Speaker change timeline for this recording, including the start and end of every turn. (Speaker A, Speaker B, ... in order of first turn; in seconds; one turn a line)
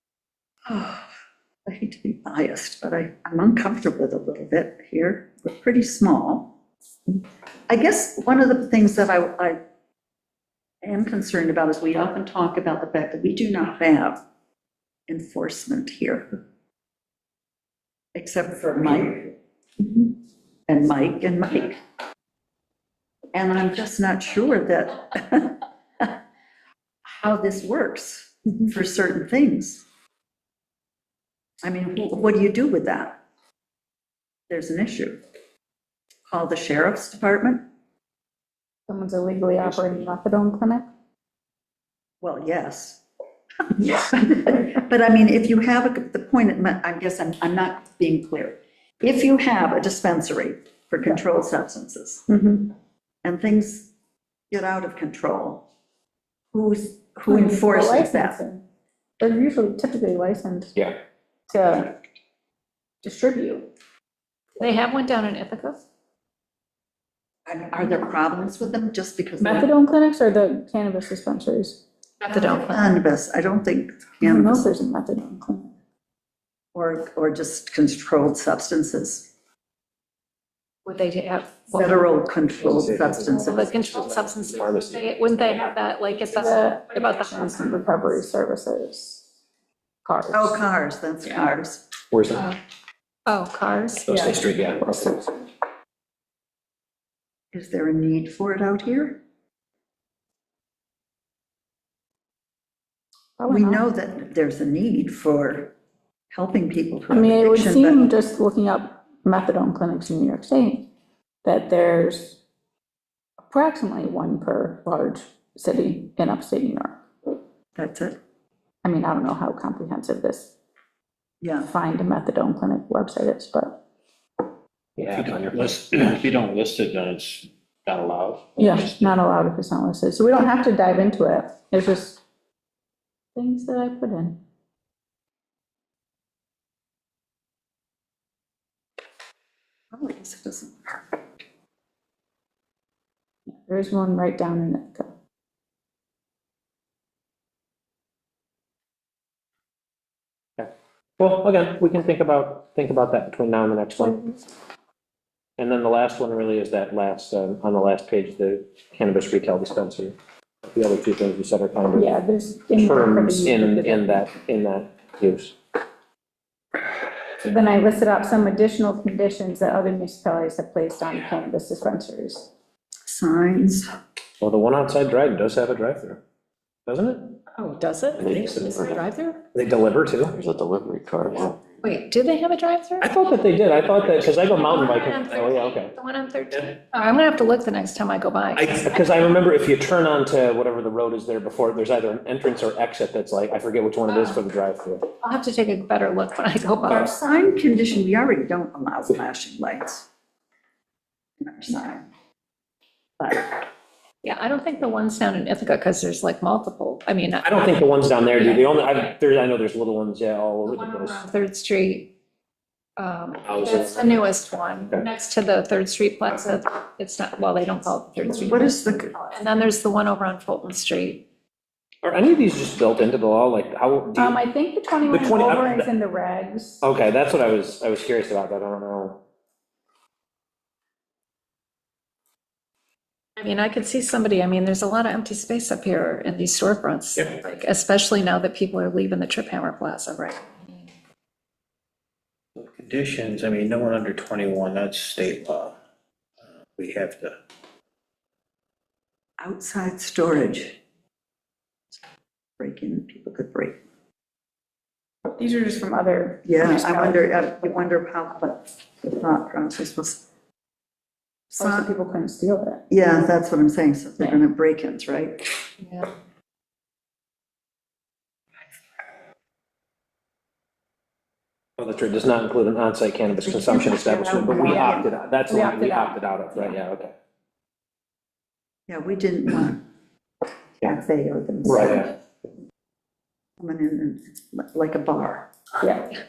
Speaker A: 0.7-1.1
Speaker A: 1.7-6.5
Speaker A: 7.7-9.6
Speaker A: 10.8-14.2
Speaker A: 15.1-16.3
Speaker A: 18.1-20.2
Speaker A: 20.7-21.8
Speaker A: 23.3-26.1
Speaker A: 27.1-29.9
Speaker A: 31.6-33.2
Speaker A: 34.5-35.2
Speaker A: 36.3-37.6
Speaker B: 38.9-40.9
Speaker A: 42.2-43.0
Speaker A: 43.7-52.3
Speaker B: 52.3-52.7
Speaker A: 53.2-53.9
Speaker A: 54.5-55.7
Speaker A: 56.5-58.4
Speaker B: 57.3-58.6
Speaker B: 59.2-60.7
Speaker B: 61.5-62.0
Speaker B: 63.0-63.7
Speaker C: 64.6-65.8
Speaker A: 67.5-69.7
Speaker B: 69.4-71.8
Speaker C: 72.2-72.9
Speaker A: 72.3-74.7
Speaker B: 74.2-75.7
Speaker A: 76.7-79.3
Speaker C: 80.8-82.0
Speaker A: 81.7-83.7
Speaker D: 82.6-85.1
Speaker C: 83.3-87.5
Speaker B: 86.3-89.3
Speaker B: 90.0-90.7
Speaker A: 90.3-91.9
Speaker D: 92.1-92.5
Speaker C: 93.3-94.2
Speaker D: 94.0-95.3
Speaker A: 97.5-99.2
Speaker B: 103.4-103.8
Speaker A: 103.5-105.7
Speaker A: 106.3-108.1
Speaker B: 107.1-110.9
Speaker B: 111.4-112.4
Speaker B: 113.4-117.0
Speaker A: 117.8-118.2
Speaker B: 118.8-120.5
Speaker A: 121.4-121.7
Speaker B: 121.6-123.8
Speaker D: 125.0-125.6
Speaker E: 125.1-129.0
Speaker B: 128.6-132.2
Speaker B: 133.3-134.4
Speaker A: 139.9-141.4
Speaker B: 143.5-145.1
Speaker D: 150.6-154.3
Speaker D: 155.6-160.2
Speaker D: 160.7-162.1
Speaker B: 161.9-164.2
Speaker D: 162.8-165.6
Speaker B: 167.4-172.5
Speaker A: 173.1-173.9
Speaker D: 174.4-176.2
Speaker D: 176.9-177.4
Speaker C: 177.5-179.4
Speaker F: 178.2-179.0
Speaker D: 179.5-180.4
Speaker F: 180.3-181.7
Speaker C: 181.8-183.1
Speaker D: 183.0-185.9
Speaker C: 184.5-188.8
Speaker D: 188.6-195.1
Speaker C: 194.1-194.4
Speaker C: 195.2-197.1
Speaker A: 196.8-200.1
Speaker A: 201.4-202.1
Speaker A: 203.2-203.6
Speaker C: 204.2-207.5
Speaker D: 207.4-211.2
Speaker C: 208.3-208.6
Speaker C: 210.7-212.1
Speaker C: 213.0-221.2
Speaker A: 218.2-219.1
Speaker D: 222.0-224.4
Speaker B: 224.2-226.8
Speaker D: 225.1-225.9
Speaker D: 226.8-229.2
Speaker C: 233.4-240.5
Speaker E: 242.6-245.7
Speaker E: 246.8-247.3
Speaker A: 249.4-250.8
Speaker A: 252.6-253.8
Speaker B: 255.4-257.8
Speaker A: 256.4-260.2
Speaker A: 261.5-261.9
Speaker B: 261.6-262.8
Speaker A: 262.9-265.5
Speaker B: 264.2-264.4
Speaker C: 265.8-266.1
Speaker D: 271.8-277.1
Speaker A: 273.3-275.1
Speaker B: 274.5-276.8
Speaker A: 278.9-279.8
Speaker A: 280.8-282.2
Speaker D: 281.6-282.1
Speaker A: 283.6-285.5
Speaker B: 285.8-286.1